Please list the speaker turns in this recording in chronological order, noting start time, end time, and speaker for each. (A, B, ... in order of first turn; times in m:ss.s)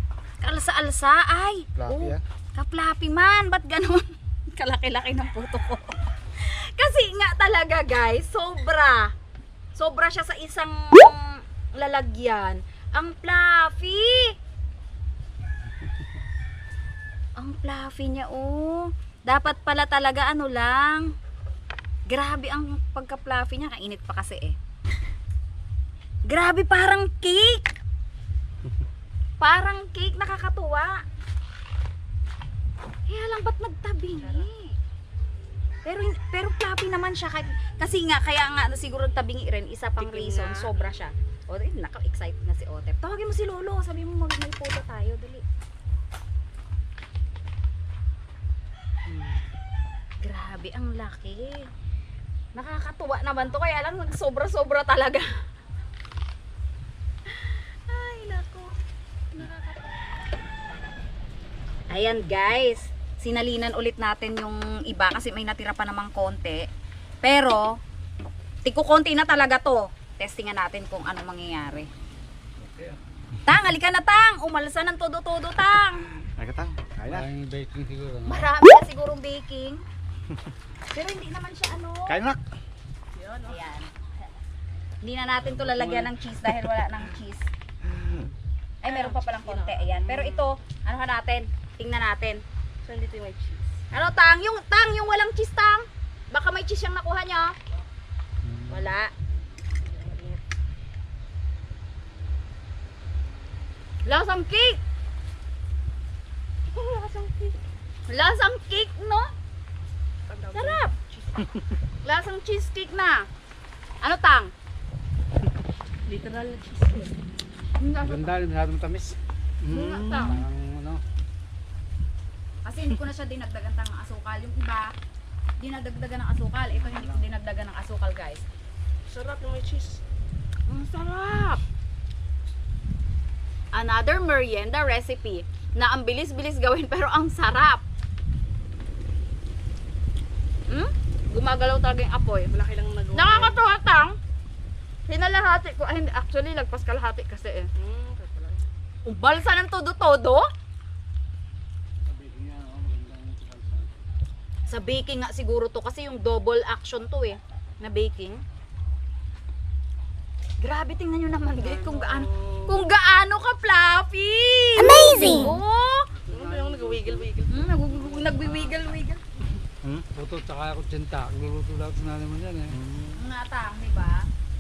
0:00.4-0:09.1 A
0:01.8-0:02.2 B
0:09.8-0:14.4 A
0:17.4-0:21.1 A
0:22.1-0:24.6 A
0:26.3-0:27.7 A
0:29.4-0:31.0 A
0:33.1-0:34.8 A
0:35.8-0:45.4 A
0:40.0-0:40.7 C
0:49.1-0:49.4 A
0:50.2-0:51.7 A
0:52.6-0:55.3 A
0:57.3-0:58.7 A
1:01.9-1:06.7 A
1:07.2-1:07.8 A
1:08.6-1:11.9 A
1:12.6-1:13.0 D
1:13.5-1:16.1 A
1:16.4-1:17.3 B
1:17.1-1:18.4 D
1:18.2-1:19.8 A
1:20.9-1:22.2 A
1:22.1-1:22.4 B
1:23.2-1:23.6 C
1:23.5-1:24.0 A
1:25.0-1:27.5 A
1:27.9-1:28.2 B
1:28.8-1:32.4 A
1:28.8-1:30.5 C
1:32.8-1:33.8 C
1:33.9-1:37.5 A
1:38.7-1:39.1 A
1:39.8-1:40.4 C
1:44.0-1:44.8 A
1:46.7-1:47.6 C
1:48.1-1:49.3 A
1:50.3-1:50.8 C
1:50.5-1:51.0 A
1:52.0-1:53.3 A
1:54.0-1:54.5 A
1:56.1-1:57.1 C
1:57.8-1:58.3 A
1:58.0-1:59.2 D
1:59.6-2:00.4 B
1:59.7-2:00.4 A
2:00.2-2:01.0 D
2:02.6-2:04.9 A
2:05.6-2:08.4 A
2:06.9-2:07.2 D
2:09.1-2:10.0 C
2:10.7-2:11.6 A
2:13.7-2:17.8 A
2:20.7-2:22.5 A
2:22.5-2:23.6 C
2:23.1-2:24.2 A
2:25.1-2:27.7 A
2:27.8-2:28.7 C
2:29.0-2:30.5 A
2:32.0-2:34.0 D
2:34.7-2:38.4 A
2:40.6-2:46.1 A
2:46.2-2:48.7 D
2:46.3-2:47.6 C
2:47.5-2:49.2 A
2:50.1-2:52.8 D
2:52.7-2:53.2 B
2:53.2-2:54.3 A